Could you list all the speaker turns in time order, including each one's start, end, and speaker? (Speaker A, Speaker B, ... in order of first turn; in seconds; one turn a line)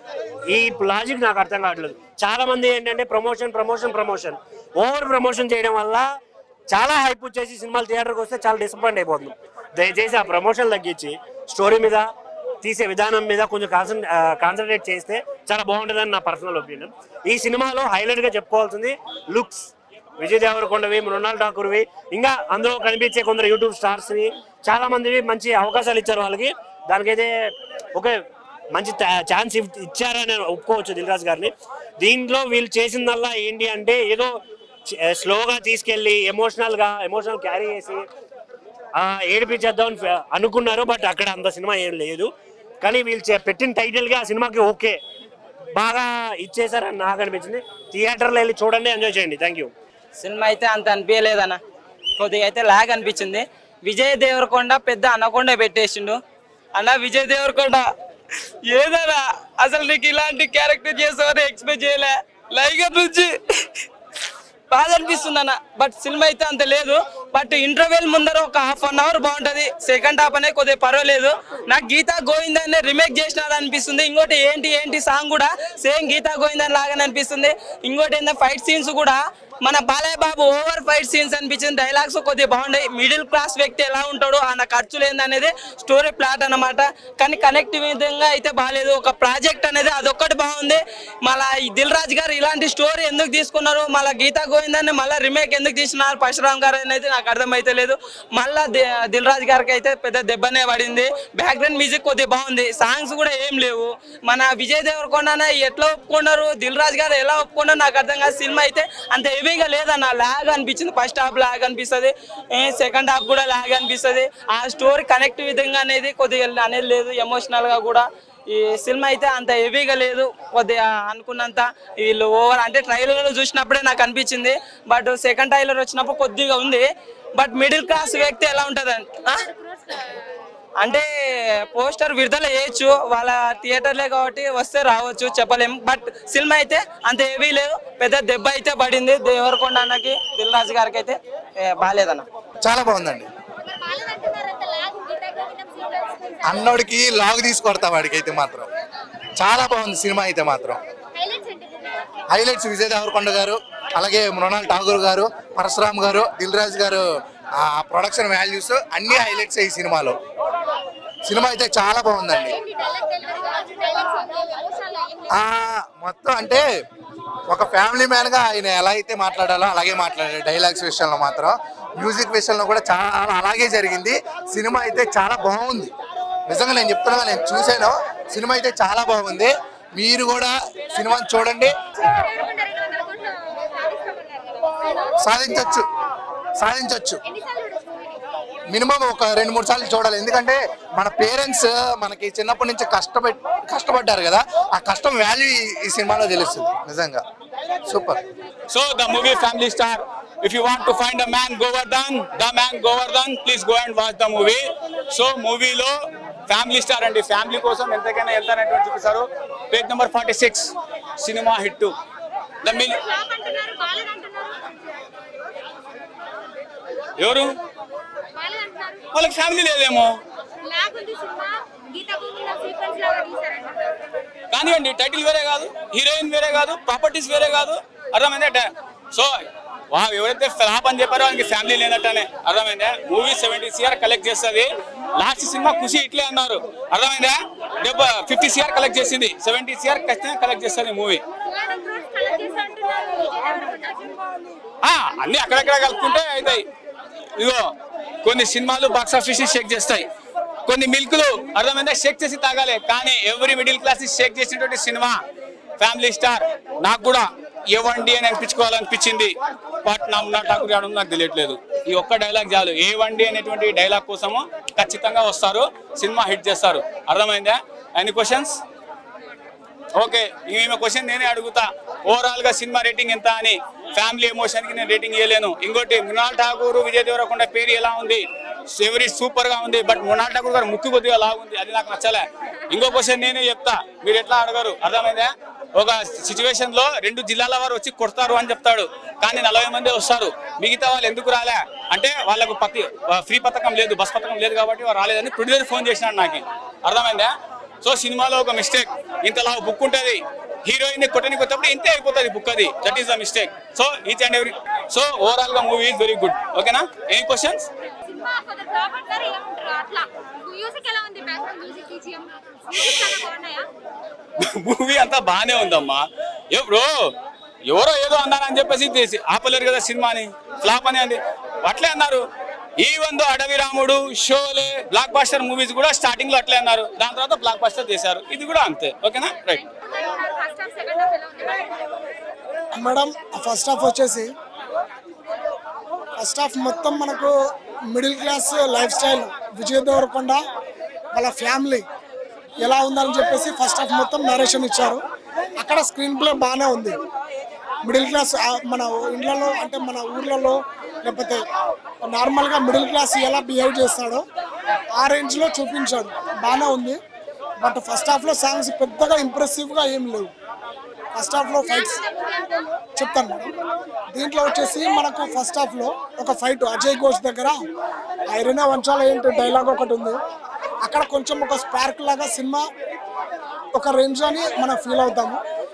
Speaker A: 0.5-6.1
Speaker A: 6.7-12.1
Speaker A: 12.6-28.2
Speaker A: 28.7-38.1
Speaker A: 39.0-42.3
Speaker A: 42.8-45.0
Speaker A: 45.8-49.7
Speaker B: 50.2-51.6
Speaker B: 52.2-56.2
Speaker B: 56.8-57.9
Speaker B: 58.7-63.8
Speaker B: 64.7-129.5
Speaker C: 129.3-130.2
Speaker B: 130.8-142.3
Speaker D: 142.6-143.3
Speaker C: 143.6-146.7
Speaker D: 146.5-148.7
Speaker D: 149.4-150.8
Speaker C: 151.2-152.2
Speaker D: 152.3-157.0
Speaker D: 157.6-160.2
Speaker D: 161.2-162.6
Speaker C: 162.4-165.4
Speaker D: 165.3-166.6
Speaker D: 167.5-175.9
Speaker D: 176.5-181.7
Speaker C: 182.0-185.2
Speaker D: 185.2-185.9
Speaker D: 186.6-187.2
Speaker C: 187.2-188.2
Speaker D: 188.7-197.2
Speaker D: 197.9-198.2
Speaker E: 198.7-204.6
Speaker E: 205.1-205.9
Speaker E: 206.5-211.9
Speaker E: 212.6-213.0
Speaker C: 212.7-214.8
Speaker E: 217.2-217.5
Speaker C: 218.3-219.1
Speaker E: 219.1-220.1
Speaker C: 220.6-224.0
Speaker E: 224.5-229.3
Speaker E: 229.9-241.2
Speaker C: 241.5-244.3
Speaker E: 244.8-246.7
Speaker E: 247.4-247.6
Speaker E: 248.2-250.1
Speaker E: 250.7-255.2
Speaker E: 255.8-259.3
Speaker E: 259.9-268.6
Speaker E: 270.0-278.2
Speaker E: 278.7-297.3
Speaker E: 297.8-307.7
Speaker C: 307.9-313.7
Speaker E: 314.4-317.1
Speaker E: 317.7-322.2
Speaker E: 322.8-329.6
Speaker C: 329.6-331.8
Speaker F: 332.7-334.3
Speaker F: 336.2-337.3
Speaker F: 337.9-340.4
Speaker F: 341.1-341.9
Speaker F: 342.6-345.0
Speaker F: 345.6-347.0
Speaker F: 347.9-351.4
Speaker F: 352.1-354.2
Speaker F: 355.0-357.0
Speaker F: 357.6-360.3
Speaker F: 361.1-362.1
Speaker C: 362.2-362.6
Speaker F: 362.9-363.5
Speaker F: 364.1-367.6
Speaker F: 368.3-370.2
Speaker F: 370.9-372.6
Speaker F: 373.7-375.4